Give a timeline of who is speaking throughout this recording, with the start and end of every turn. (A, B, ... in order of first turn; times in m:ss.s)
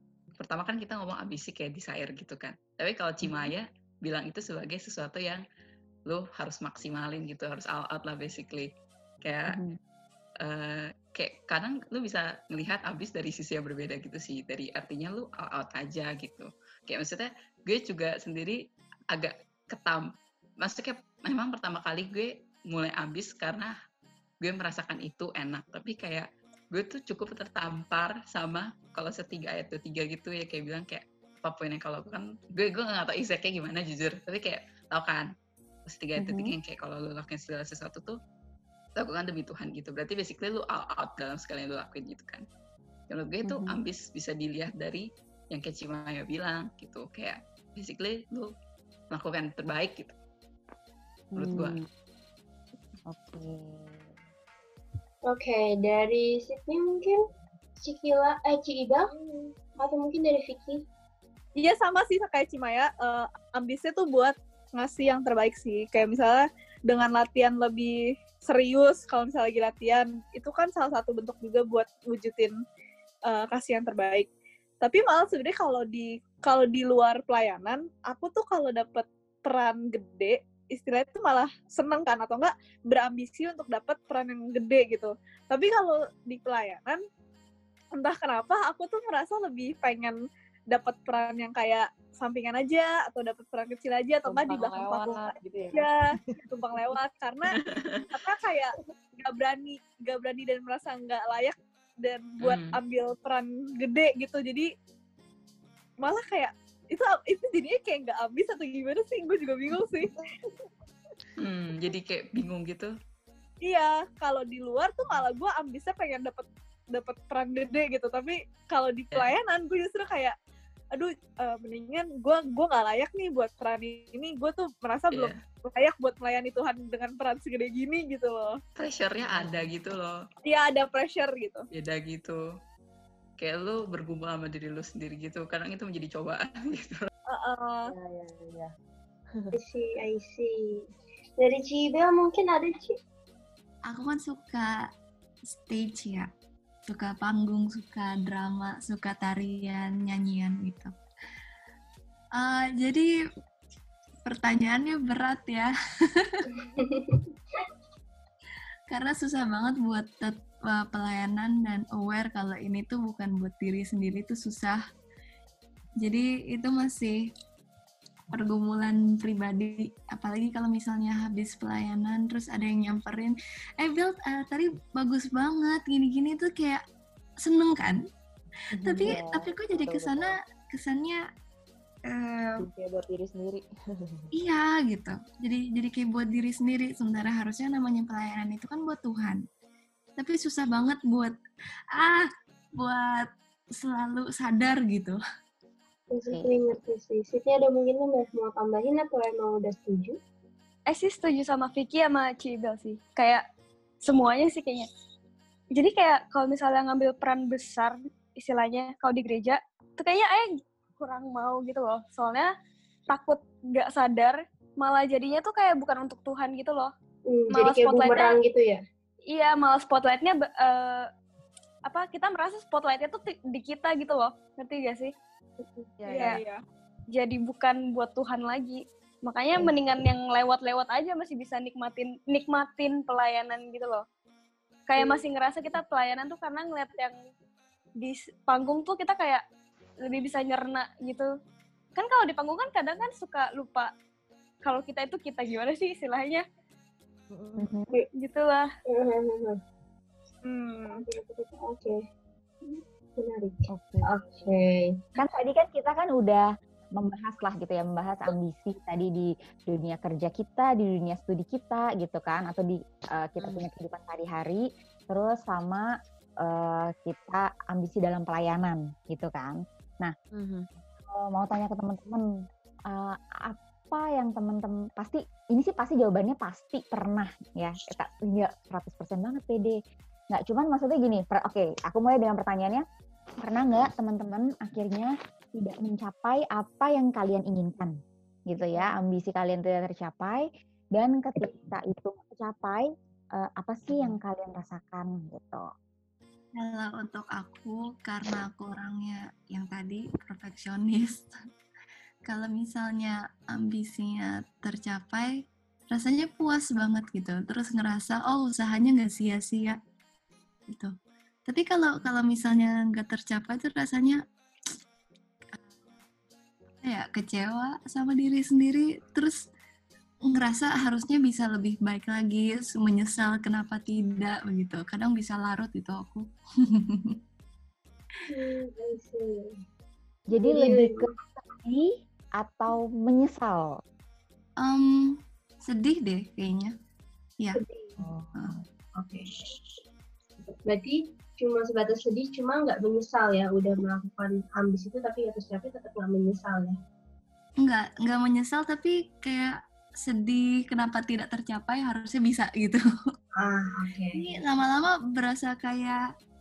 0:00.4-0:05.4 A
0:03.2-0:03.5 B
0:06.1-0:08.7 A
0:09.2-0:09.6 A
0:09.5-0:09.8 B
0:10.4-0:18.6 A
0:19.1-0:20.1 A
0:20.6-0:23.7 A
0:24.4-0:35.3 A
0:35.8-0:38.2 A
0:36.2-0:36.5 B
0:39.0-0:42.4 A
0:43.1-0:48.5 A
0:43.4-0:43.8 B
0:49.1-0:50.1 A
0:51.3-0:51.8 B
0:51.4-0:51.8 A
0:53.1-0:54.1 B
0:55.3-0:57.2 C
0:57.8-1:00.8 C
1:01.6-1:12.6 D
1:13.3-1:14.3 D
1:14.8-1:27.0 D
1:27.9-1:30.2 D
1:30.7-1:37.6 D
1:34.3-1:35.8 E
1:37.6-1:38.0 A
1:38.1-1:44.7 D
1:42.4-1:42.8 A
1:46.0-1:50.1 D
1:50.2-1:50.7 E
1:51.4-1:52.9 A
1:53.6-2:00.3 D
2:01.0-2:08.5 D
2:05.1-2:05.4 A
2:08.8-2:10.2 A
2:09.2-2:09.7 E
2:10.4-2:11.6 D
2:11.7-2:12.4 A
2:13.4-2:17.1 A
2:17.3-2:17.9 D
2:17.9-2:18.7 E
2:19.5-2:20.8 C
2:21.4-2:23.0 C
2:23.9-2:24.9 F
2:25.5-2:26.3 F
2:26.9-2:30.9 F
2:32.4-2:33.1 F
2:34.3-2:35.7 F
2:36.2-2:36.5 F
2:36.6-2:37.3 C
2:38.9-2:44.8 F
2:46.0-2:47.2 F
2:48.3-2:56.8 F
2:57.4-2:58.0 F
2:58.7-3:01.2 F
2:58.8-2:59.2 B
2:59.0-3:00.3 E
3:02.6-3:04.3 E
3:04.3-3:09.4 F
3:10.2-3:11.3 F
3:12.0-3:15.2 F
3:16.1-3:20.2 C
3:16.2-3:16.6 B
3:20.9-3:23.4 G
3:24.0-3:24.9 G
3:25.7-3:32.5 G
3:33.1-3:36.9 G
3:37.3-3:38.8 C
3:37.5-3:38.4 G
3:39.3-3:41.1 G
3:41.8-3:45.1 G
3:45.6-3:45.9 C
3:46.0-3:46.4 E
3:46.1-3:46.5 G
3:47.1-3:54.0 G
3:54.9-3:57.2 G
3:55.0-3:55.2 C
3:58.0-3:59.4 G
4:00.0-4:01.3 G
4:01.9-4:03.9 G
4:04.6-4:06.4 G
4:07.3-4:07.7 E
4:07.6-4:07.9 B
4:08.1-4:08.7 G
4:08.9-4:09.6 C
4:10.4-4:11.0 D
4:10.9-4:12.0 C
4:12.6-4:15.0 C
4:13.7-4:14.4 B
4:15.2-4:25.9 B
4:23.4-4:23.7 E
4:26.4-4:30.1 B
4:30.3-4:30.7 E
4:31.1-4:32.2 B
4:32.9-4:39.8 B
4:40.3-4:42.8 B
4:43.4-4:48.0 B
4:48.5-4:52.8 B
4:53.4-4:55.7 B
4:56.5-5:01.3 F
5:02.3-5:05.4 F
5:05.9-5:09.8 F
5:11.5-5:14.2 F
5:16.8-5:19.5 F
5:20.3-5:27.2 F
5:28.3-5:29.6 C
5:30.3-5:33.8 B
5:30.4-5:31.1 C
5:34.6-5:36.7 F
5:37.5-5:38.0 C
5:38.0-5:38.6 E
5:39.0-5:39.3 C
5:40.6-5:46.8 C
5:47.6-5:52.8 F
5:53.4-5:54.2 C
5:54.1-5:56.0 F